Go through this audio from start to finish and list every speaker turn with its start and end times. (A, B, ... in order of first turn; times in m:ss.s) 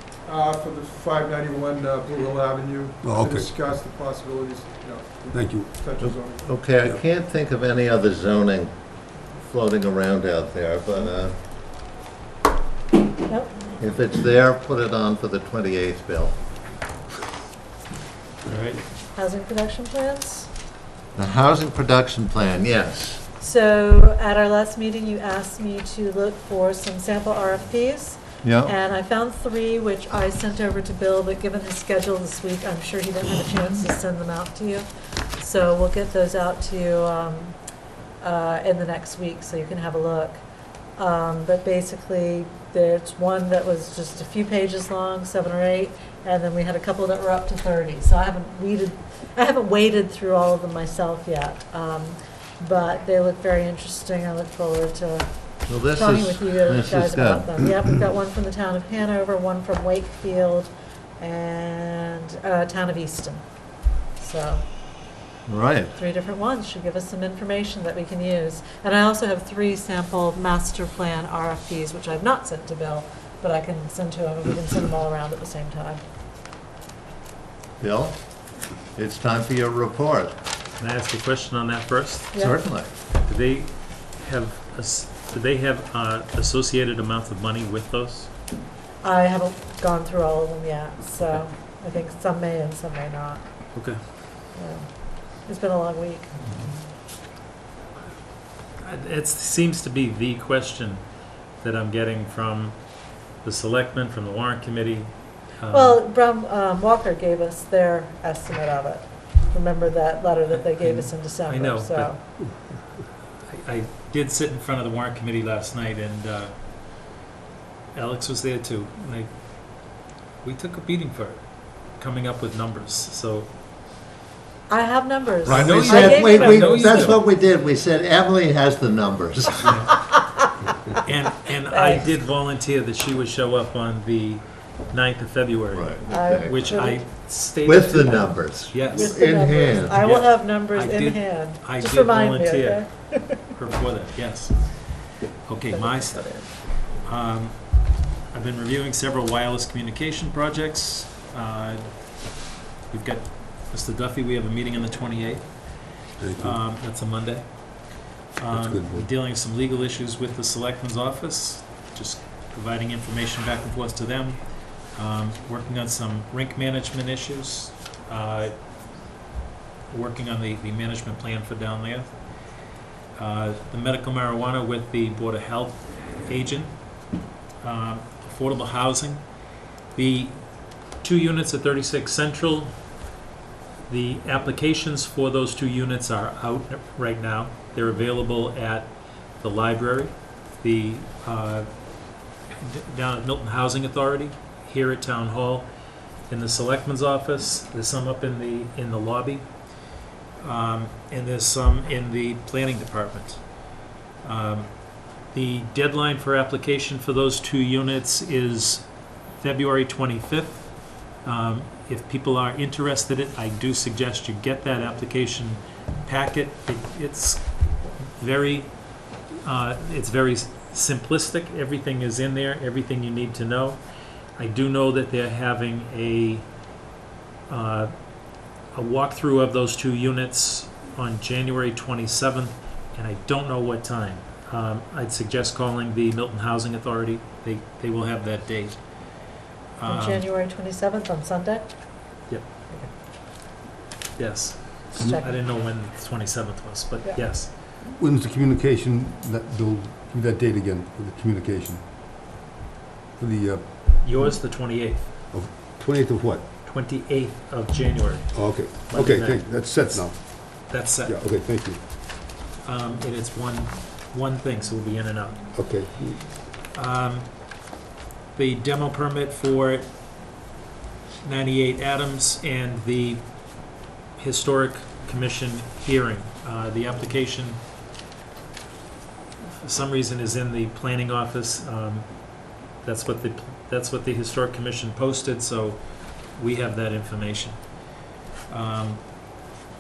0:00.3-0:06.4 A
0:03.0-0:03.5 B
0:05.3-0:05.7 B
0:06.0-0:11.4 C
0:13.3-0:13.5 D
0:13.8-0:16.4 C
0:18.5-0:18.8 E
0:19.1-0:20.5 D
0:21.2-0:23.2 C
0:23.4-0:37.6 D
0:28.4-0:28.7 C
0:38.2-0:40.4 D
0:41.0-1:03.5 D
0:55.7-0:57.6 C
1:04.1-1:04.6 D
1:05.5-1:05.9 C
1:06.0-1:16.0 D
1:17.8-1:18.4 C
1:19.0-1:20.3 C
1:20.8-1:22.4 E
1:22.3-1:22.6 D
1:22.4-1:22.9 C
1:23.2-1:28.3 E
1:29.0-1:33.5 D
1:34.5-1:36.4 D
1:38.8-1:46.0 E
1:45.7-1:52.2 D
1:50.5-1:52.4 E
1:53.5-1:56.5 E
1:57.9-2:03.5 E
2:04.7-2:07.1 D
2:05.5-2:07.2 E
2:05.5-2:10.0 C
2:09.6-2:09.9 E
2:11.0-2:19.2 E
2:11.7-2:12.1 D
2:15.7-2:16.7 C
2:16.1-2:17.0 D
2:17.6-2:20.0 C
2:18.8-2:23.5 D
2:19.9-2:48.7 E
2:25.7-2:26.5 D
2:36.2-2:36.6 B
2:38.5-2:39.1 B
2:49.9-2:52.5 E
2:53.2-2:57.0 E
2:57.6-3:00.4 E
3:00.9-3:02.8 E
3:03.9-3:11.7 E
3:12.5-3:15.7 E
3:16.3-3:19.5 E
3:20.4-3:23.6 E
3:24.2-3:43.8 E
3:44.4-3:46.5 E
3:47.5-3:47.9 E
3:48.7-3:58.8 E
3:59.8-4:00.2 E
3:59.9-4:01.7 D
4:04.2-4:07.5 E
4:05.0-4:05.3 D
4:07.8-4:11.9 B
4:13.2-4:14.0 B
4:14.0-4:15.2 E
4:15.3-4:16.5 B
4:16.6-4:21.2 E
4:18.3-4:21.8 B
4:22.6-4:25.4 E
4:25.5-4:26.3 B
4:26.7-4:27.6 E
4:28.4-4:29.9 E
4:31.2-4:33.5 E
4:34.2-4:37.6 E
4:39.4-4:47.9 E
4:48.5-4:49.4 E